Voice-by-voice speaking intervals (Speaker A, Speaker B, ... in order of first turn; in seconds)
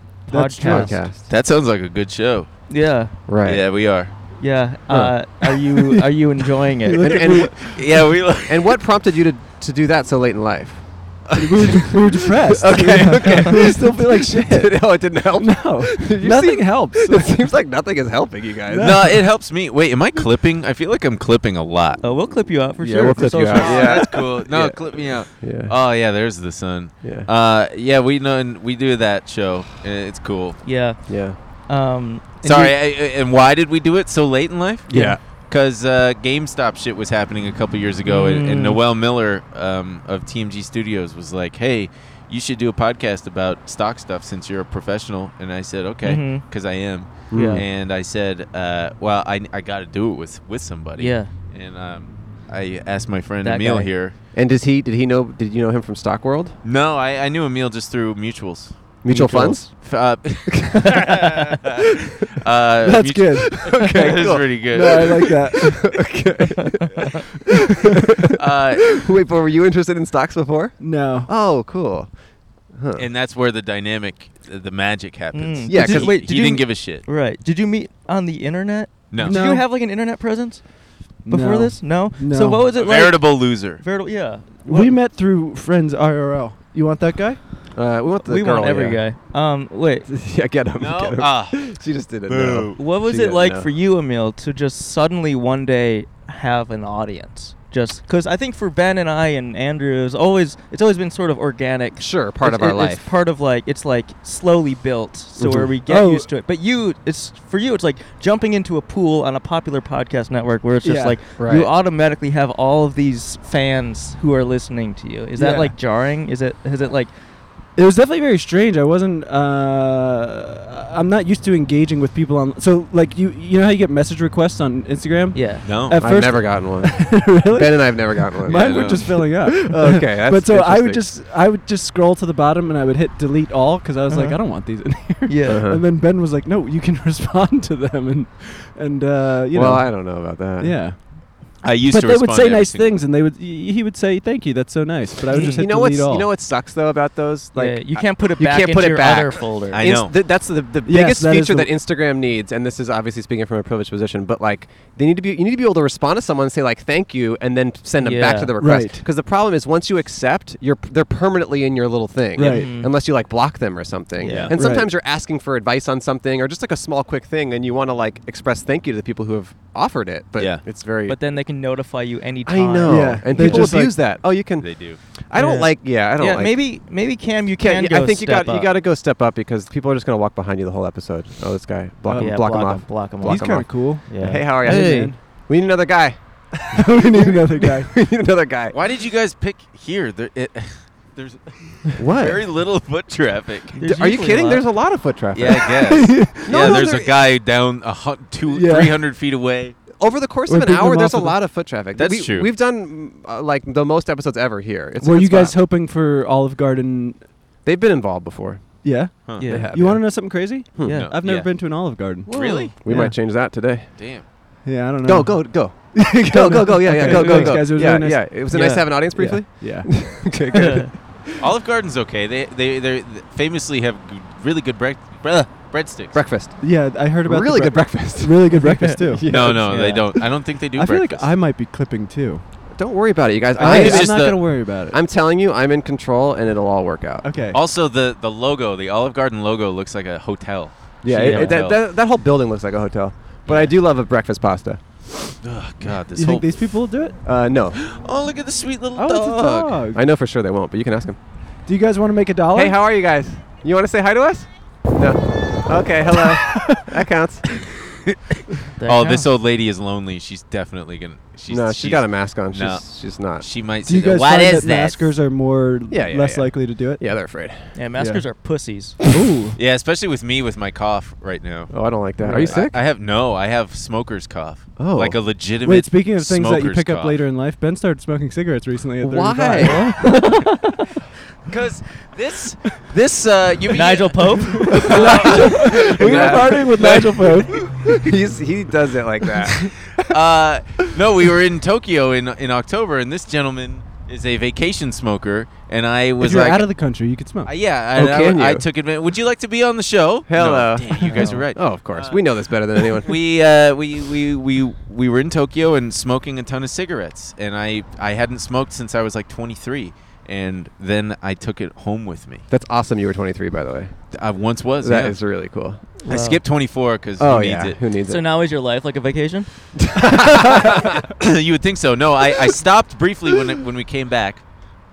Speaker A: 0.3-1.0, 2.7-3.1, 4.4-7.1, 22.0-24.0, 30.6-31.0, 31.7-32.7, 34.9-35.2, 38.0-38.8, 46.0-46.4, 47.3-47.6, 51.0-51.3, 53.4-53.9, 75.3-80.7, 81.2-85.0, 88.2-90.1, 92.8-117.1, 125.3-125.7, 134.1-134.4, 135.2-135.6, 145.3-145.6, 147.6-149.8, 158.0-158.5, 162.4-162.9, 164.2-164.5, 171.1-173.7, 175.3-178.7, 182.1-185.1, 193.8-194.6, 209.4-209.7, 210.8-211.1, 212.3-213.1, 217.0-217.7, 218.5-218.9, 220.5-220.9, 228.5-230.1, 241.1-241.6, 258.8-259.3, 267.7-269.0, 272.3-272.5, 279.6-280.4, 283.7-285.0, 301.1-301.4, 316.0-316.4, 318.1-319.5
Speaker B: 0.3-1.1, 5.8-6.0, 6.8-7.8, 11.3-14.8, 15.4-17.4, 18.7-19.2, 59.1-59.6, 62.8-64.2, 64.7-65.9, 70.8-71.3, 79.2-79.7, 81.2-82.7, 84.6-87.4, 105.5-106.3, 110.8-111.2, 115.3-115.7, 117.8-141.0, 141.9-146.3, 150.8-151.7, 158.6-159.0, 162.3-162.7, 164.5-164.9, 172.9-174.0, 182.1-182.4, 183.2-185.2, 186.7-187.9, 195.9-196.8, 198.5-199.0, 200.5-201.4, 205.0-207.2, 208.8-213.1, 214.6-218.4, 219.1-219.9, 226.6-229.3, 230.7-232.4, 233.6-235.0, 237.2-237.6, 246.1-247.2, 248.9-250.0, 251.7-252.8, 256.5-256.9, 263.8-267.0, 268.0-268.2, 269.1-269.6, 272.2-272.5, 275.6-280.6, 284.6-287.9, 296.2-297.5
Speaker C: 0.6-1.3, 3.3-3.6, 7.0-7.7, 8.5-19.1, 22.8-25.7, 27.0-27.3, 31.1-31.4, 34.9-35.2, 47.3-47.6, 54.3-56.6, 59.0-59.7, 60.5-61.0, 63.6-66.9, 67.9-68.3, 68.9-72.1, 72.7-73.1, 75.7-76.1, 87.7-89.0, 90.1-93.7, 102.0-103.0, 105.4-105.7, 111.4-111.7, 126.0-131.1, 135.4-135.8, 139.5-140.8, 145.5-171.2, 172.4-176.6, 177.6-186.2, 186.8-188.8, 192.0-192.4, 193.9-195.8, 196.4-197.1, 200.0-205.6, 207.6-211.0, 212.8-213.9, 215.0-220.9, 226.1-226.6, 227.2-228.5, 229.1-229.9, 232.8-234.4, 234.9-237.2, 241.0-244.8, 247.2-247.8, 249.9-251.2, 252.5-257.5, 261.5-263.4, 265.9-267.8, 271.7-272.8, 274.8-275.2, 279.0-279.9, 285.4-286.9, 287.8-289.8, 297.9-298.6, 300.3-303.1, 312.5-314.1, 314.8-316.3, 317.2-318.2, 319.8-321.1
Speaker D: 1.3-2.5, 3.4-4.1, 7.5-8.8, 18.8-22.0, 23.5-30.6, 32.4-34.9, 35.4-54.1, 56.6-59.0, 59.7-61.8, 62.4-65.3, 68.4-69.0, 73.0-77.0, 79.1-79.4, 82.7-83.8, 90.8-91.7, 92.3-92.8, 125.6-126.0, 128.5-129.2, 141.6-142.9, 149.7-150.1, 170.4-170.6, 174.6-175.0, 188.7-193.8, 195.3-199.8, 201.9-202.5, 210.8-212.8, 214.0-214.3, 221.4-226.2, 229.3-231.3, 233.6-234.5, 237.5-241.8, 243.5-243.7, 245.4-246.7, 247.8-249.8, 258.8-262.8, 263.4-265.1, 269.6-271.7, 272.3-277.2, 281.5-287.1, 290.0-296.7, 297.4-302.2, 302.9-312.4, 314.1-315.2, 316.0-317.8, 321.2-324.4